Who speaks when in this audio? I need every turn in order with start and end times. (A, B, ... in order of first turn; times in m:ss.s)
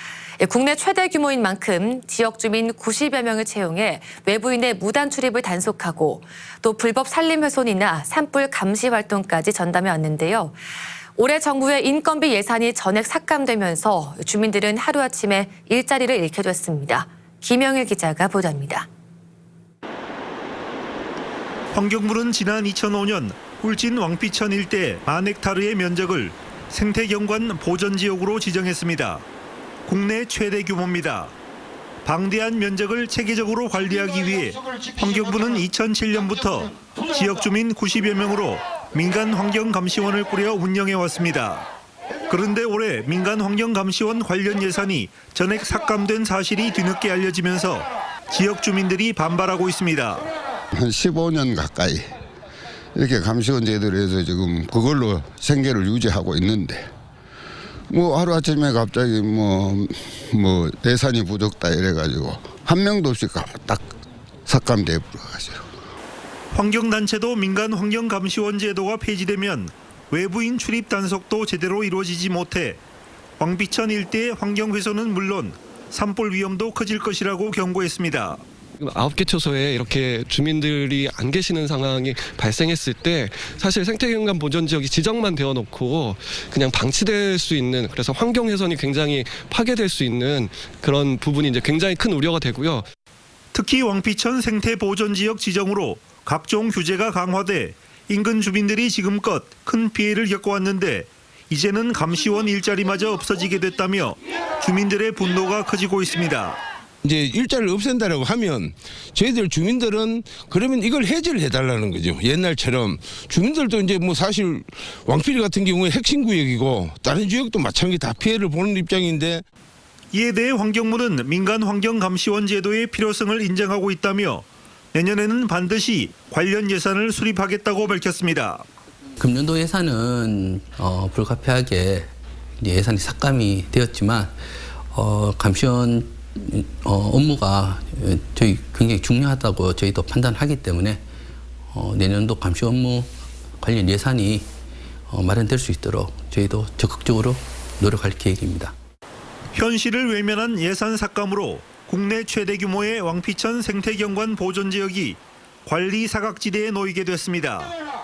0:00.4-0:10.6 A
0:11.2-0:18.9 A
0:21.7-0:29.2 B
0:29.9-0:31.3 B
0:32.0-0:41.7 B
0:42.3-0:50.3 B
0:50.7-0:52.1 C
0:52.9-0:56.9 C
0:57.9-1:03.8 C
1:04.4-1:05.6 C
1:06.5-1:12.8 B
1:13.4-1:18.4 B
1:18.8-1:32.8 D
1:33.5-1:46.6 B
1:47.0-1:59.4 E
2:00.1-2:08.6 B
2:09.2-2:21.0 F
2:21.7-2:24.5 F
2:25.1-2:28.7 F
2:29.5-2:37.7 B